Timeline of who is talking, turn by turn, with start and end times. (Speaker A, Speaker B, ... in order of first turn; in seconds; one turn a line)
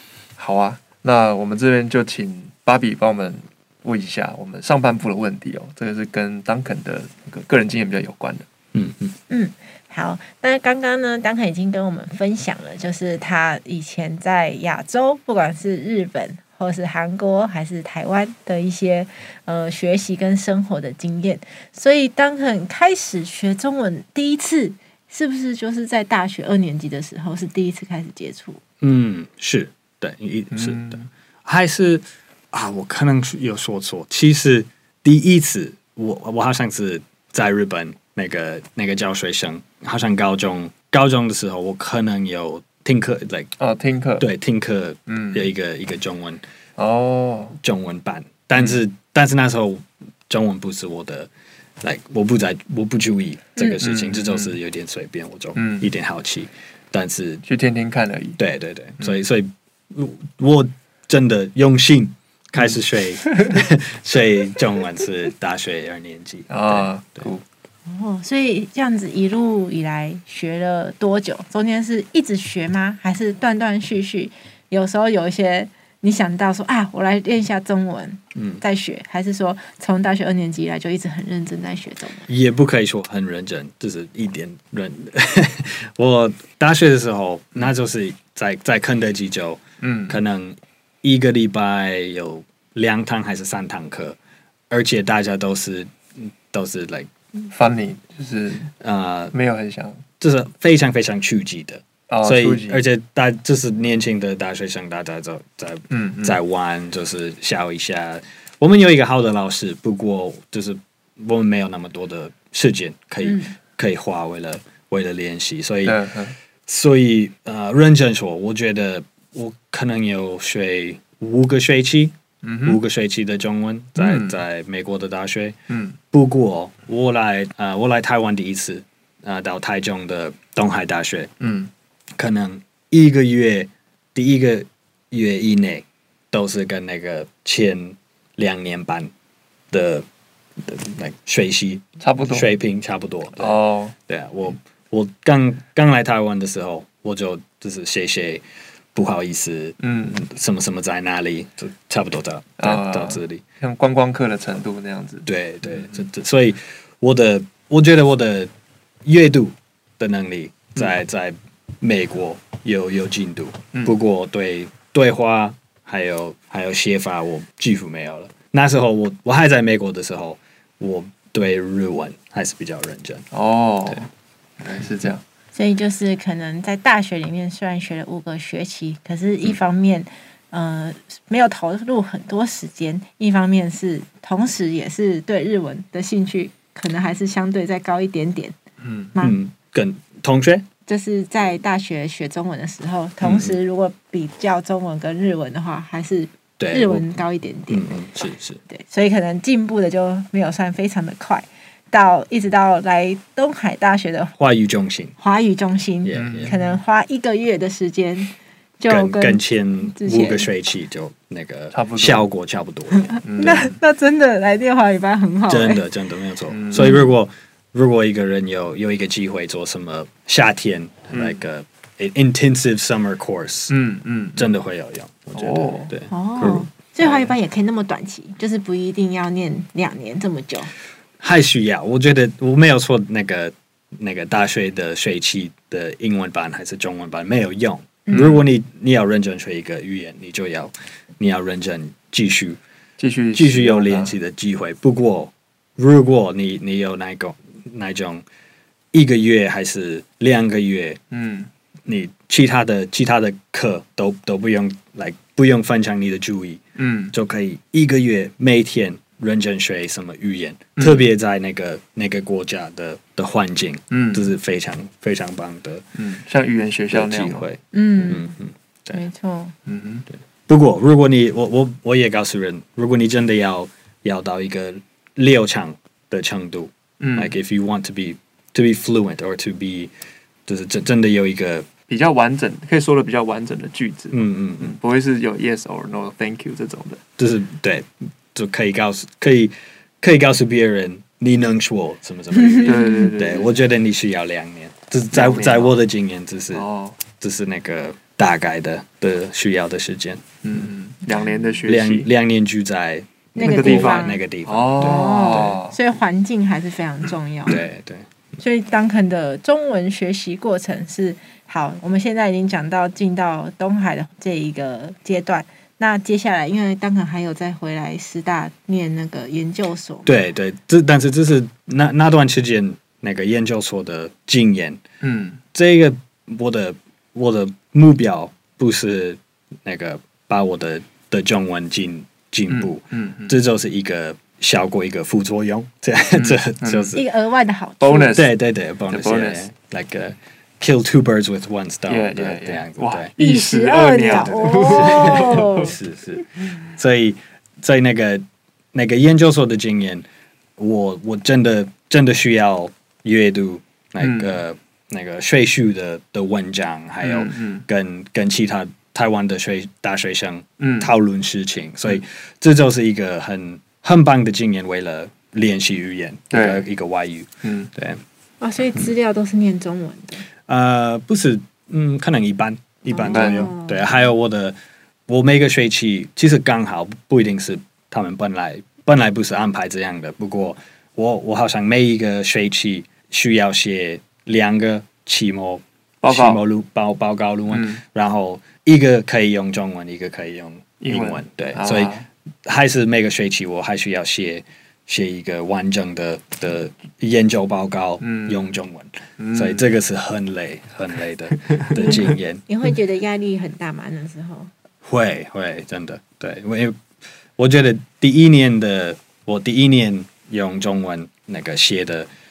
Speaker A: 0.4-8.4
Speaker B: 8.7-9.1
Speaker C: 9.3-28.6
Speaker B: 28.8-43.5
Speaker A: 30.5-31.1
Speaker A: 43.6-44.3
Speaker B: 44.2-46.4
Speaker A: 45.1-45.5
Speaker A: 46.8-47.5
Speaker B: 47.6-51.3
Speaker A: 48.5-48.8
Speaker B: 51.8-57.4
Speaker A: 53.8-54.5
Speaker A: 55.5-55.9
Speaker A: 57.5-58.4
Speaker B: 58.4-67.3
Speaker A: 63.2-63.6
Speaker A: 66.5-67.4
Speaker C: 67.9-82.3
Speaker B: 78.3-78.6
Speaker B: 82.3-94.2
Speaker A: 89.8-90.2
Speaker B: 94.7-97.1
Speaker A: 97.5-98.7
Speaker B: 98.8-99.3
Speaker A: 99.3-100.0
Speaker B: 100.2-116.0
Speaker A: 102.1-102.8
Speaker A: 105.9-106.4
Speaker C: 113.2-113.5
Speaker A: 115.8-116.3
Speaker B: 116.7-125.6
Speaker A: 122.4-122.8
Speaker A: 124.0-124.4
Speaker A: 125.7-126.0
Speaker B: 126.1-131.3
Speaker A: 131.4-131.7
Speaker B: 132.2-139.1
Speaker B: 139.7-140.1
Speaker B: 140.6-153.4
Speaker A: 142.0-142.5
Speaker A: 143.4-143.9
Speaker A: 149.8-150.2
Speaker A: 152.6-156.1
Speaker B: 155.2-158.5
Speaker B: 159.0-173.2
Speaker A: 173.3-174.1
Speaker A: 174.6-175.2
Speaker C: 175.5-188.6
Speaker A: 188.8-189.1
Speaker B: 189.2-190.7
Speaker C: 190.8-198.0
Speaker B: 193.2-193.6
Speaker B: 196.6-197.1
Speaker B: 197.7-198.6
Speaker C: 198.7-204.3
Speaker B: 204.4-205.1
Speaker C: 205.2-210.5
Speaker B: 206.0-206.5
Speaker A: 206.1-206.7
Speaker B: 208.9-213.7
Speaker A: 211.7-212.3
Speaker C: 212.9-215.8
Speaker A: 213.2-213.7
Speaker B: 215.5-223.8
Speaker A: 216.5-217.0
Speaker C: 216.8-217.1
Speaker A: 221.1-221.4
Speaker A: 223.7-224.5
Speaker B: 224.3-226.7
Speaker A: 225.3-225.9
Speaker C: 226.1-230.7
Speaker A: 227.0-227.3
Speaker B: 231.2-242.6
Speaker C: 238.1-238.3
Speaker A: 238.1-238.4
Speaker A: 243.0-244.2
Speaker B: 243.3-248.2
Speaker B: 248.9-251.0
Speaker A: 251.1-251.5
Speaker B: 251.8-265.8
Speaker A: 256.8-257.1
Speaker A: 260.8-261.1
Speaker A: 263.9-264.3
Speaker A: 266.0-267.5
Speaker B: 266.9-269.0
Speaker C: 267.7-268.3
Speaker C: 268.9-269.5
Speaker A: 269.6-270.1
Speaker B: 270.5-279.9
Speaker A: 277.0-277.3
Speaker B: 280.5-281.7
Speaker A: 281.9-287.0
Speaker B: 284.1-284.8
Speaker B: 287.2-300.7
Speaker C: 292.6-293.1
Speaker A: 292.6-293.6
Speaker A: 295.1-295.8
Speaker A: 296.5-297.0
Speaker A: 300.4-302.1
Speaker B: 301.6-305.6
Speaker C: 303.4-304.2
Speaker A: 303.4-305.8
Speaker C: 304.8-307.6
Speaker B: 307.4-308.1
Speaker C: 308.4-320.1
Speaker B: 320.1-324.8
Speaker A: 325.0-325.4
Speaker B: 325.5-337.0
Speaker A: 332.5-333.4
Speaker A: 336.1-337.0
Speaker C: 336.9-338.2
Speaker A: 337.8-338.4
Speaker B: 338.1-343.1
Speaker A: 338.9-339.4
Speaker A: 341.9-345.7
Speaker C: 343.2-345.7
Speaker B: 344.1-350.1
Speaker B: 350.6-368.0
Speaker A: 354.0-354.4
Speaker A: 357.0-357.6
Speaker A: 360.6-360.9
Speaker A: 366.3-366.6
Speaker A: 367.4-367.7
Speaker C: 368.4-370.2
Speaker B: 370.5-374.6
Speaker C: 372.9-373.8
Speaker A: 373.1-373.5
Speaker B: 375.1-402.4
Speaker A: 386.0-386.4
Speaker A: 387.5-387.8
Speaker A: 390.8-392.1
Speaker A: 398.0-398.5
Speaker A: 399.2-399.7
Speaker A: 401.4-402.0
Speaker C: 401.7-404.5
Speaker B: 404.8-406.8
Speaker B: 407.4-412.1